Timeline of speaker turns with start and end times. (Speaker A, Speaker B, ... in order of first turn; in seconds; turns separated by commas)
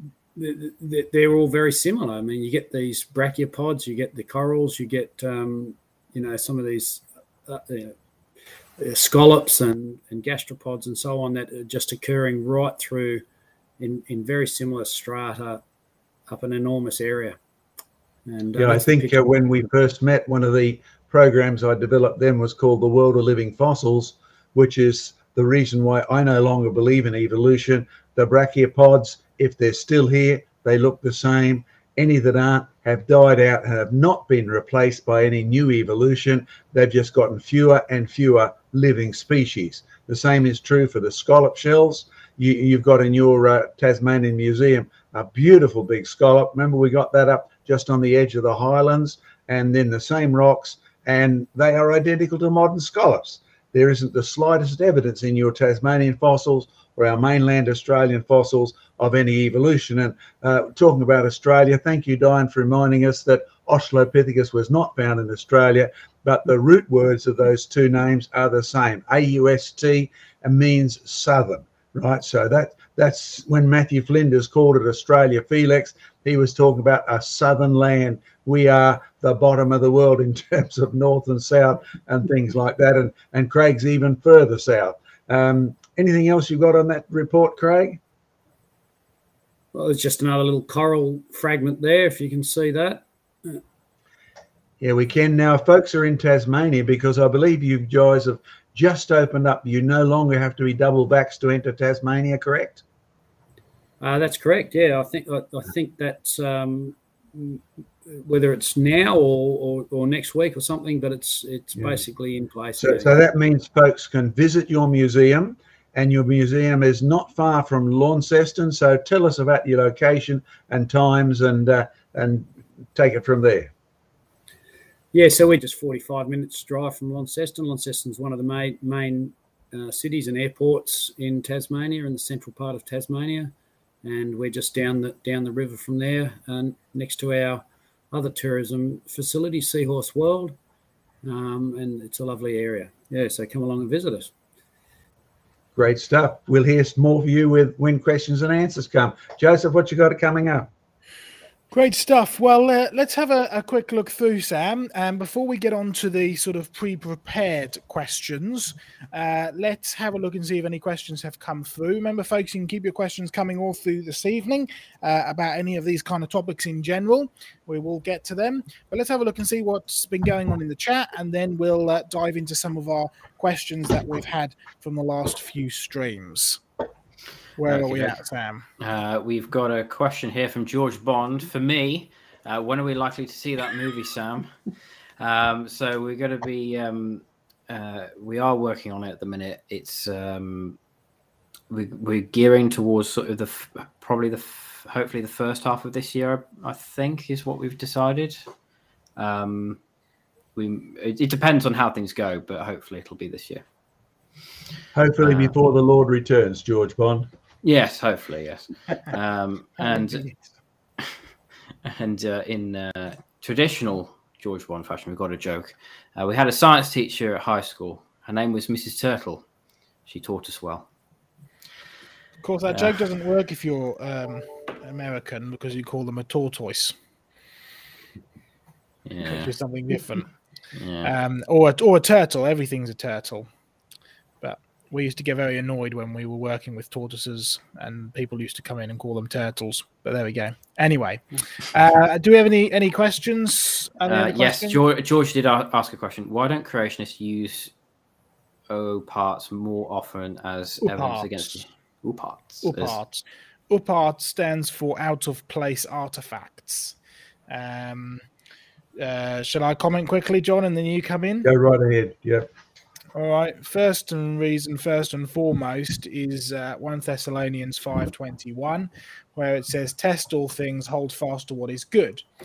Speaker A: 0.3-8.0, Speaker A: 8.8-13.2, Speaker A: 13.8-15.6, Speaker A: 16.3-17.4, Speaker A: 18.3-19.2, Speaker B: 18.6-88.0, Speaker A: 89.7-93.6, Speaker B: 94.8-102.8, Speaker A: 104.0-113.2, Speaker B: 112.8-123.7, Speaker A: 125.1-133.5, Speaker A: 134.0-140.6, Speaker A: 141.2-144.3, Speaker B: 145.8-150.7, Speaker C: 151.7-176.6, Speaker C: 177.6-178.7, Speaker D: 177.6-178.2, Speaker D: 178.8-184.5, Speaker D: 185.2-190.8, Speaker D: 191.7-198.4, Speaker D: 199.2-199.8, Speaker D: 200.6-203.6, Speaker B: 204.9-207.3, Speaker D: 205.2-205.5, Speaker D: 207.6-210.3, Speaker C: 210.0-210.4, Speaker D: 211.8-219.4, Speaker D: 220.1-220.9, Speaker C: 222.4-226.9, Speaker D: 222.7-223.0, Speaker D: 229.1-229.6, Speaker C: 229.2-230.3, Speaker D: 230.8-231.1, Speaker C: 231.0-233.5, Speaker C: 234.4-244.8, Speaker D: 244.1-247.7, Speaker D: 248.7-253.0, Speaker C: 250.8-251.4, Speaker C: 252.6-256.9, Speaker C: 257.5-258.2, Speaker C: 259.0-261.5, Speaker B: 261.4-262.5, Speaker C: 263.1-272.2